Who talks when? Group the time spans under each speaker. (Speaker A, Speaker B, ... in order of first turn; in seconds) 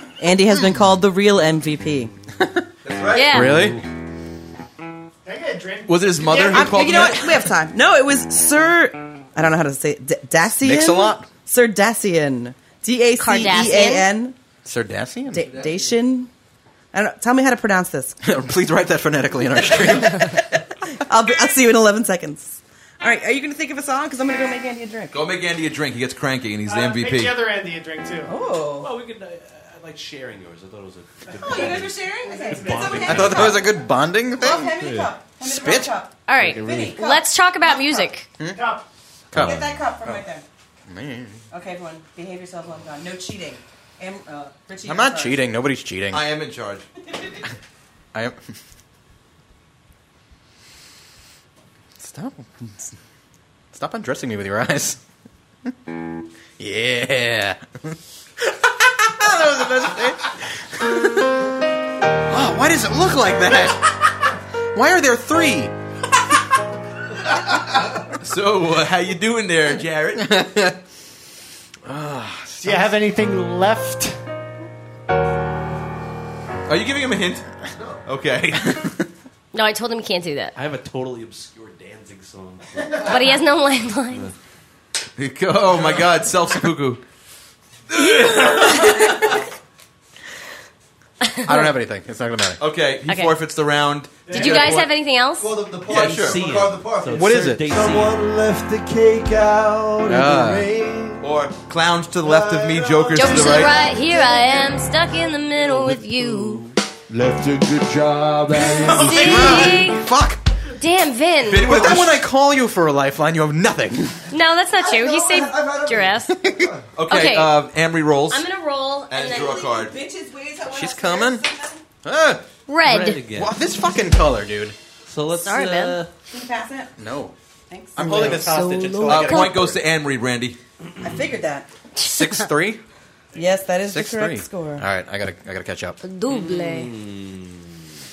Speaker A: 0.2-2.1, 6.5-14.4, 15.3-16.3, 16.9-18.1, 20.9-25.2, 28.3-28.9, 31.4-33.7, 34.4-37.3, 37.8-38.0, 39.3-40.5, 41.5-45.4, 119.3-121.8, 126.3-126.9, 127.7-129.2, 131.0-131.7, 133.3-134.8
Speaker B: 2.8-3.6, 5.9-7.5, 25.1-27.4, 46.1-46.9, 68.2-70.4, 76.7-77.5, 78.0-78.9, 85.2-87.0, 87.9-89.0, 92.6-94.9, 95.9-96.5, 101.2-103.8, 111.5-112.2, 117.0-118.5, 119.1-119.9, 129.1-130.6
Speaker C: 3.1-3.6, 13.2-14.1, 36.3-38.3, 79.5-80.5, 83.0-84.3, 88.7-89.1, 91.2-91.7, 93.1-93.3, 94.3-95.5, 103.2-106.6, 108.9-110.1, 110.8-111.8, 114.3-116.3, 117.1-117.6, 118.3-119.9, 122.7-123.2, 125.4-126.0, 128.2-129.6, 132.0-132.5, 136.0-136.9
Speaker D: 3.3-3.8, 10.6-11.3, 14.7-15.5, 18.2-20.4, 33.0-34.7, 35.4-35.9, 39.3-40.2, 40.9-41.4, 44.9-46.3, 52.0-52.9, 53.7-55.0, 56.6-61.3, 62.3-63.9, 64.7-65.7, 70.2-70.8, 71.9-72.9, 88.7-89.0, 91.5-92.6, 97.1-97.7, 100.1-100.7, 108.8-110.4, 111.6-114.2, 116.3-116.7, 120.7-121.5, 122.0-122.5, 123.3-124.8, 127.0-127.3, 128.0-129.8, 132.0-132.8, 133.9-136.0
Speaker E: 5.2-7.0, 26.7-28.3, 32.2-33.2, 38.5-38.9, 72.6-74.2, 94.3-94.8
Speaker F: 28.8-33.7, 34.7-35.2, 36.3-37.0, 39.3-39.7, 80.5-83.4, 96.0-98.2, 105.6-106.8, 122.8-123.6, 125.1-126.1, 136.3-137.7
Speaker G: 77.8-78.0, 95.4-101.2, 102.2-104.6, 107.1-109.8, 114.8-116.9